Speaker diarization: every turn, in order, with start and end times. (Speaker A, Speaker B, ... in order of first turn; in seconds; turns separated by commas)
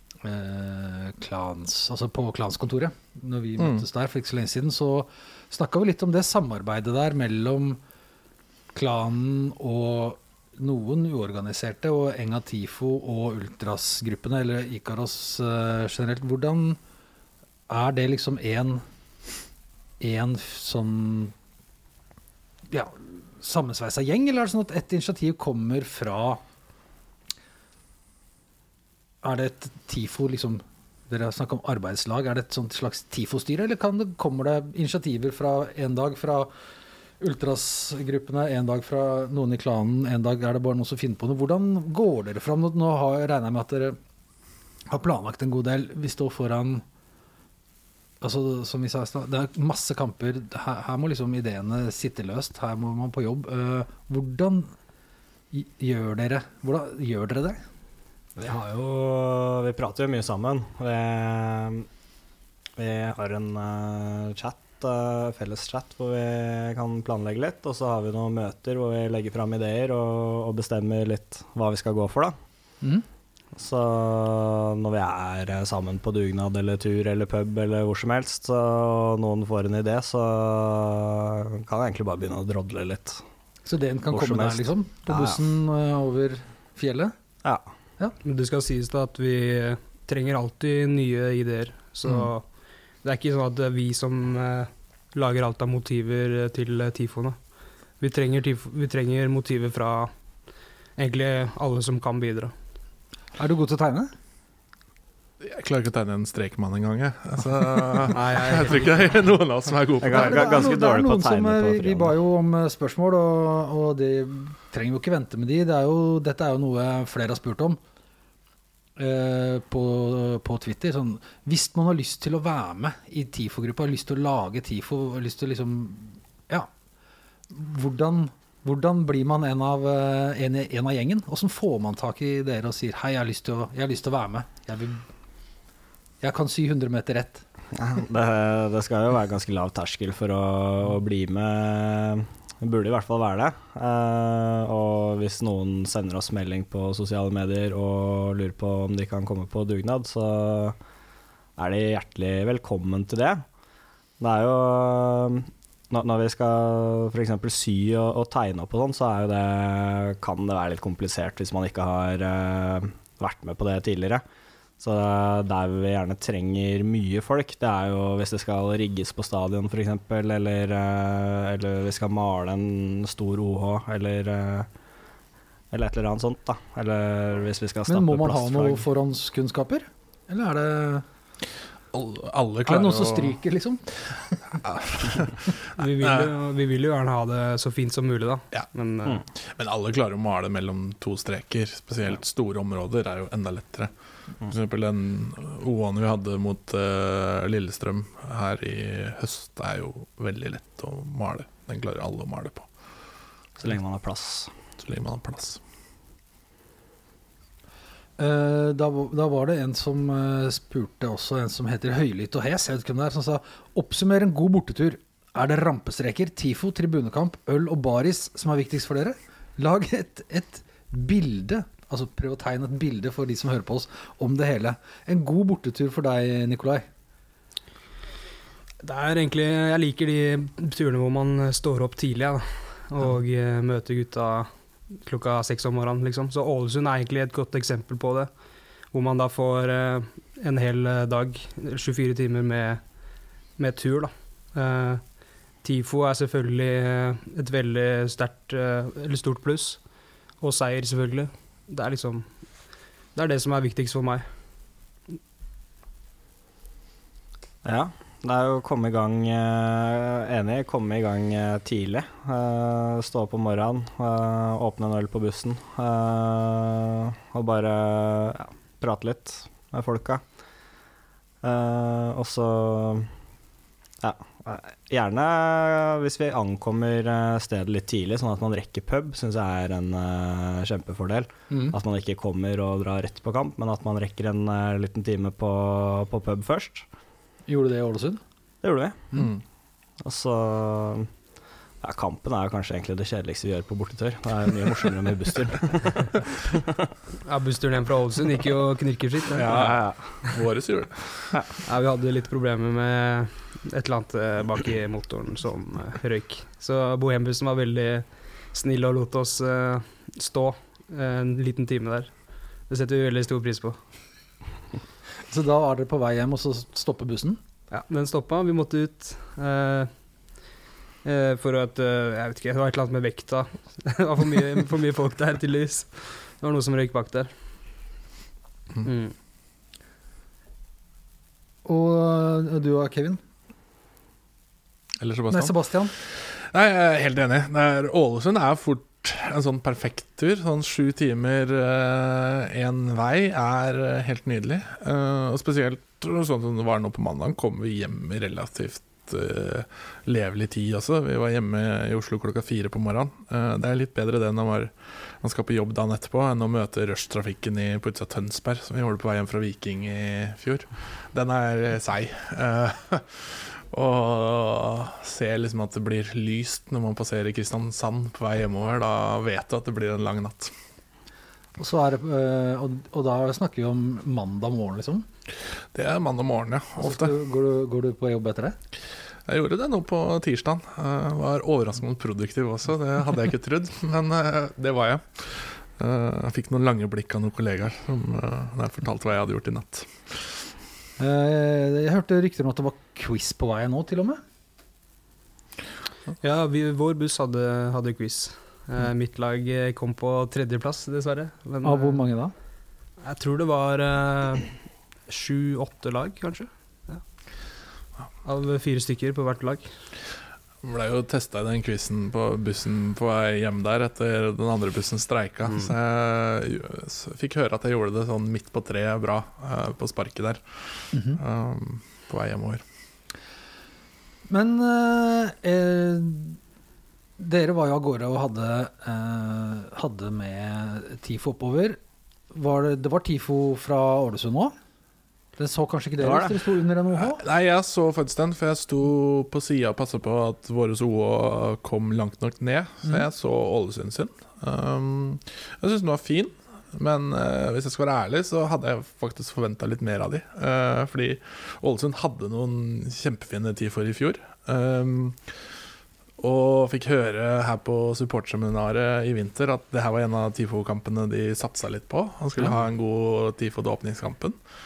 Speaker A: 0.2-7.8, Speaker B: 3.6-3.8, Speaker A: 8.7-16.8, Speaker A: 17.7-18.8, Speaker A: 20.0-21.3, Speaker A: 22.7-26.4, Speaker A: 29.2-36.5, Speaker A: 37.2-44.0, Speaker A: 44.9-46.8, Speaker A: 48.2-54.7, Speaker A: 55.5-57.6, Speaker C: 58.4-61.9, Speaker C: 62.8-72.3, Speaker C: 73.5-83.2, Speaker A: 83.7-87.1, Speaker C: 84.1-85.4, Speaker D: 88.2-92.4, Speaker D: 93.0-97.4, Speaker D: 98.0-100.1, Speaker D: 101.0-102.5, Speaker A: 103.4-104.1, Speaker B: 105.4-110.7, Speaker D: 108.1-109.0, Speaker C: 110.0-112.1, Speaker A: 110.1-117.8, Speaker A: 119.0-126.7, Speaker A: 127.5-135.0, Speaker A: 136.2-137.4, Speaker C: 137.7-150.8, Speaker C: 151.6-153.4, Speaker C: 154.2-164.2, Speaker C: 164.8-174.7, Speaker C: 175.7-178.8, Speaker A: 177.9-181.0, Speaker B: 181.9-183.4, Speaker A: 182.7-184.4, Speaker B: 184.1-186.3, Speaker D: 185.8-189.2, Speaker B: 189.3-202.7, Speaker C: 203.6-204.5, Speaker B: 204.8-205.6, Speaker A: 208.2-226.8, Speaker D: 228.8-238.3, Speaker D: 238.9-242.8, Speaker D: 243.6-249.8, Speaker D: 250.4-252.3, Speaker D: 253.1-254.2, Speaker C: 257.6-270.2, Speaker C: 271.4-273.1, Speaker C: 274.0-286.9, Speaker A: 281.5-281.8, Speaker A: 287.5-288.2, Speaker C: 288.6-289.1, Speaker C: 290.0-291.1, Speaker C: 291.8-296.6, Speaker D: 297.2-299.7, Speaker B: 299.3-301.4, Speaker C: 299.5-299.9, Speaker D: 301.6-313.8, Speaker A: 315.3-317.4, Speaker D: 317.7-319.9, Speaker D: 321.0-327.3, Speaker D: 328.8-329.1, Speaker A: 331.6-333.2, Speaker B: 335.0-370.5, Speaker A: 335.3-335.9, Speaker A: 371.6-375.1, Speaker B: 375.7-377.1, Speaker A: 376.8-378.6, Speaker B: 379.3-390.5, Speaker A: 391.0-394.2, Speaker D: 396.2-402.0, Speaker A: 401.6-402.3, Speaker D: 403.0-407.0, Speaker D: 408.2-409.7, Speaker B: 410.6-422.6, Speaker A: 420.9-421.2, Speaker A: 424.3-426.4, Speaker A: 427.2-431.8, Speaker A: 432.3-434.5, Speaker A: 435.4-437.2, Speaker C: 436.0-436.5, Speaker B: 436.9-455.4, Speaker B: 456.2-464.4